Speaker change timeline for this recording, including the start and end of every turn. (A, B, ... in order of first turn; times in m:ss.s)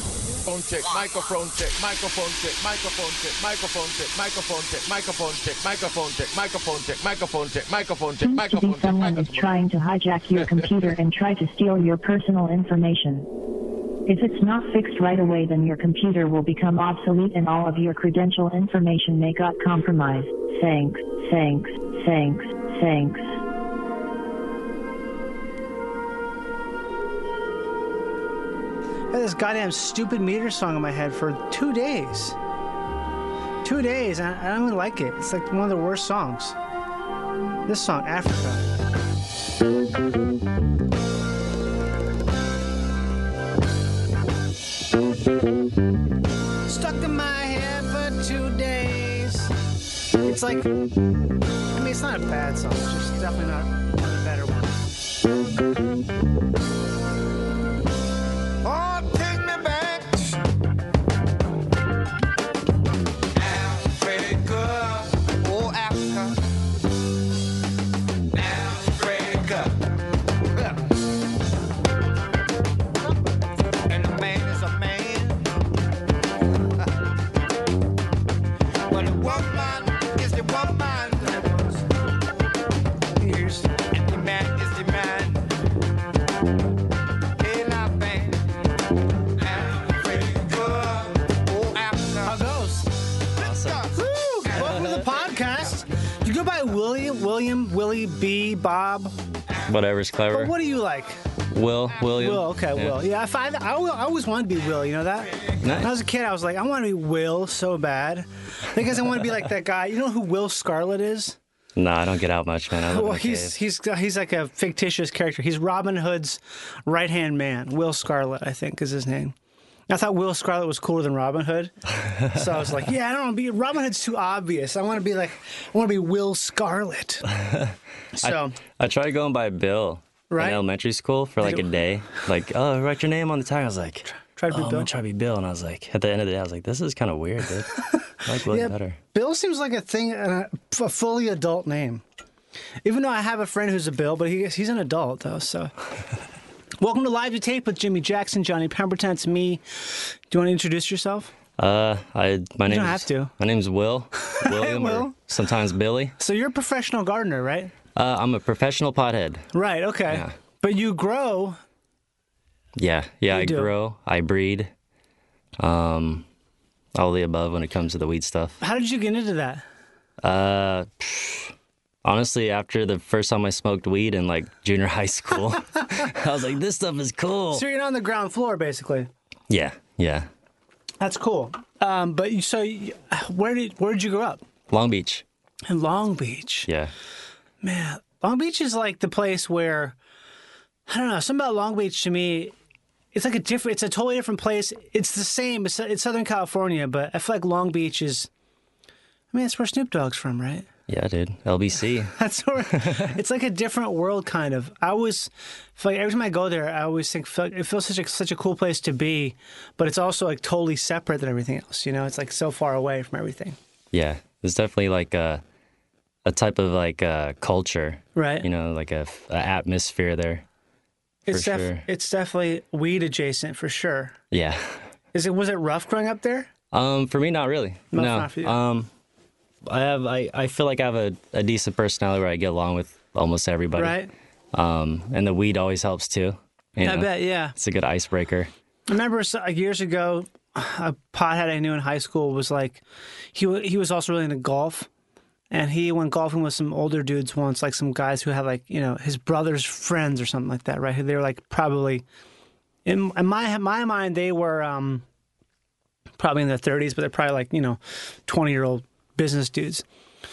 0:00.5-0:09.5 A
0:08.2-0:13.3 B
0:14.1-0:23.3 B
0:29.1-0:32.4 C
0:33.6-0:36.6 C
0:37.7-0:38.6 C
0:46.7-0:49.5 C
0:50.2-0:50.7 C
0:51.7-0:54.8 C
0:58.6-1:00.4 D
1:03.3-1:06.4 D
1:08.3-1:09.9 D
1:13.9-1:15.5 D
1:18.9-1:21.8 D
1:23.2-1:23.7 C
1:23.8-1:25.5 D
1:27.4-1:28.5 D
1:29.4-1:32.4 D
1:32.2-1:32.9 C
1:33.4-1:34.0 D
1:33.4-1:33.8 E
1:33.9-1:39.1 C
1:34.5-1:35.1 E
1:39.7-1:40.6 E
1:40.3-1:41.2 C
1:41.5-1:43.0 E
1:42.2-1:51.4 C
1:45.6-1:45.9 E
1:51.8-1:53.6 E
1:52.9-1:59.4 C
1:59.9-2:01.7 C
2:02.2-2:07.3 C
2:07.3-2:19.0 E
2:08.2-2:08.6 C
2:10.3-2:10.6 C
2:14.2-2:14.9 C
2:18.5-2:22.0 C
2:22.8-2:25.7 C
2:26.8-2:31.3 C
2:31.6-2:36.1 E
2:32.7-2:33.3 C
2:34.3-2:35.1 C
2:36.2-2:37.7 C
2:38.0-2:39.5 E
2:39.5-2:41.6 C
2:42.8-2:44.7 E
2:43.3-2:43.7 C
2:45.6-2:46.3 E
2:47.0-2:48.6 E
2:48.6-2:49.6 C
2:50.2-2:51.5 E
2:52.0-2:57.6 E
2:57.5-2:59.1 C
2:59.5-3:00.3 E
3:01.0-3:04.4 C
3:04.7-3:05.2 E
3:05.7-3:06.7 C
3:07.6-3:10.0 C
3:10.9-3:12.5 C
3:13.1-3:18.3 C
3:19.3-3:20.7 C
3:20.9-3:22.2 E
3:22.1-3:33.6 C
3:22.7-3:23.0 E
3:33.9-3:35.4 E
3:36.2-3:40.4 E
3:38.2-3:38.5 C
3:41.3-3:44.2 C
3:41.3-3:41.8 E
3:44.3-3:44.8 E
3:45.1-3:46.5 C
3:46.7-3:48.9 E
3:47.9-3:48.6 C
3:49.7-3:54.0 E
3:53.8-3:54.1 C
3:54.5-3:58.5 E
3:56.8-3:57.5 C
3:58.9-4:02.8 C
4:03.3-4:04.9 C
4:05.5-4:12.0 C
4:12.8-4:15.0 C
4:16.2-4:19.8 C